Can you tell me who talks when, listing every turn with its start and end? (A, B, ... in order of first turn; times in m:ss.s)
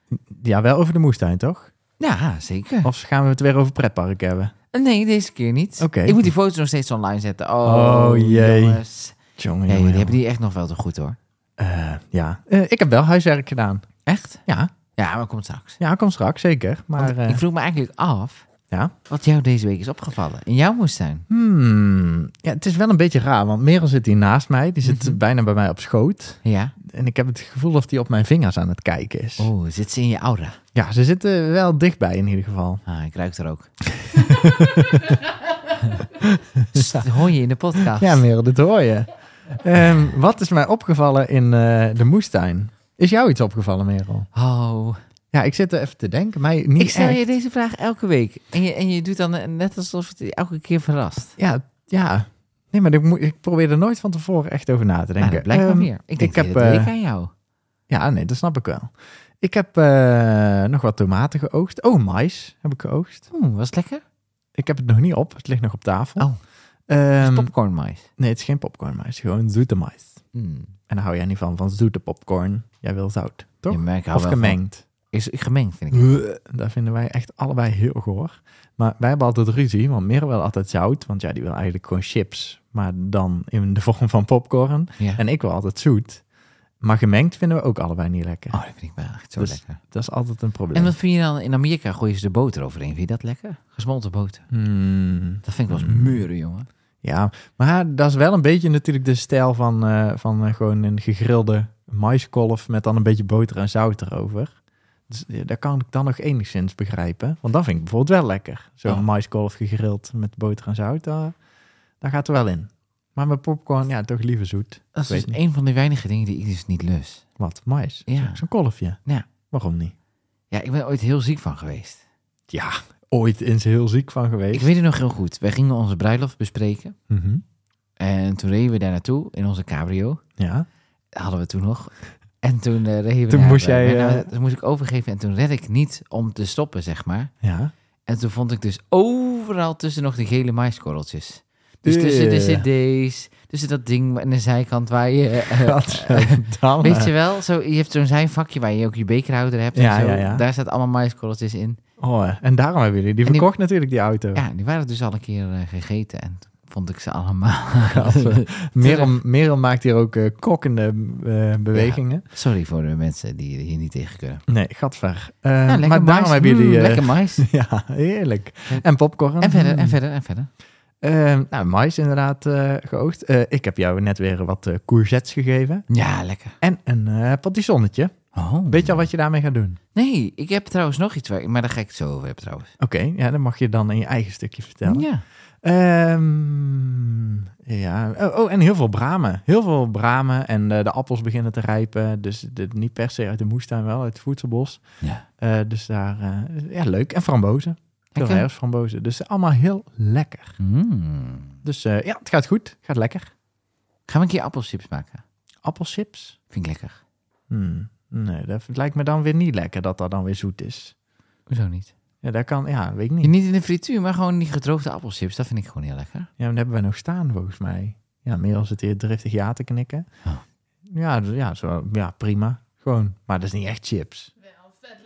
0:00.1-0:01.7 A
0:02.0-0:02.9 B
0:02.8-0:04.5 A
0:04.7-0:09.2 B
0:05.8-0:06.2 A
0:07.6-0:08.8 A
0:09.4-0:10.2 A
0:09.7-0:11.2 B
0:11.6-0:13.9 A
0:14.1-0:14.4 B
0:14.5-0:14.7 A
0:15.0-0:15.8 B
0:15.8-0:17.4 A
0:17.0-0:18.5 B
0:19.1-0:21.3 B
0:21.3-0:29.5 A
0:24.8-0:25.2 B
0:26.4-0:26.8 B
0:29.4-0:30.6 B
0:30.7-0:32.8 A
0:32.9-0:33.7 B
0:33.9-0:35.2 A
0:36.2-0:37.1 A
0:36.7-0:38.2 B
0:37.8-0:44.3 A
0:44.4-0:45.0 B
0:45.3-0:47.2 A
0:46.8-0:51.4 B
0:51.4-0:56.9 A
0:55.2-0:57.3 B
0:57.9-1:03.3 A
1:03.3-1:04.0 B
1:04.6-1:06.3 A
1:06.9-1:07.5 A
1:07.2-1:08.1 B
1:08.2-1:10.2 A
1:10.3-1:10.7 B
1:10.9-1:14.8 A
1:13.7-1:14.6 B
1:15.1-1:16.2 B
1:15.9-1:26.2 A
1:26.8-1:28.6 A
1:28.5-1:29.8 B
1:29.4-1:30.9 A
1:30.8-1:34.5 B
1:34.5-1:36.2 A
1:35.4-1:36.7 B
1:37.0-1:44.6 A
1:45.1-1:51.4 A
1:52.0-1:55.4 A
1:54.9-1:57.2 B
1:57.4-1:59.0 A
1:58.1-1:58.4 B
1:59.5-1:59.9 A
2:00.5-2:02.0 B
2:02.5-2:04.7 A
2:04.5-2:07.0 B
2:07.1-2:07.4 A
2:08.0-2:10.2 B
2:10.4-2:10.7 A
2:11.2-2:17.3 B
2:13.3-2:14.3 A
2:17.4-2:17.7 A
2:18.1-2:31.8 B
2:21.8-2:22.7 A
2:25.4-2:27.1 A
2:29.8-2:30.4 A
2:32.0-2:34.4 A
2:34.4-2:39.2 B
2:37.8-2:42.2 A
2:41.7-2:44.4 B
2:44.5-2:50.0 A
2:45.7-2:47.5 B
2:49.4-2:50.5 B
2:51.0-2:55.9 A
2:55.9-2:56.6 B
2:56.6-2:58.2 A
2:58.3-2:59.1 B
2:58.7-2:59.8 A
3:00.0-3:02.7 B
3:02.8-3:05.1 A
3:04.8-3:05.2 B
3:05.6-3:14.8 A
3:15.4-3:20.6 A
3:18.2-3:18.5 B
3:20.6-3:21.6 B
3:21.6-3:23.3 A
3:24.1-3:25.2 B
3:25.6-3:26.4 A
3:26.5-3:27.0 B
3:27.5-3:30.9 A
3:31.5-3:31.9 B
3:32.2-3:33.3 A
3:33.2-3:36.3 B
3:36.4-3:40.1 A
3:40.9-3:44.3 A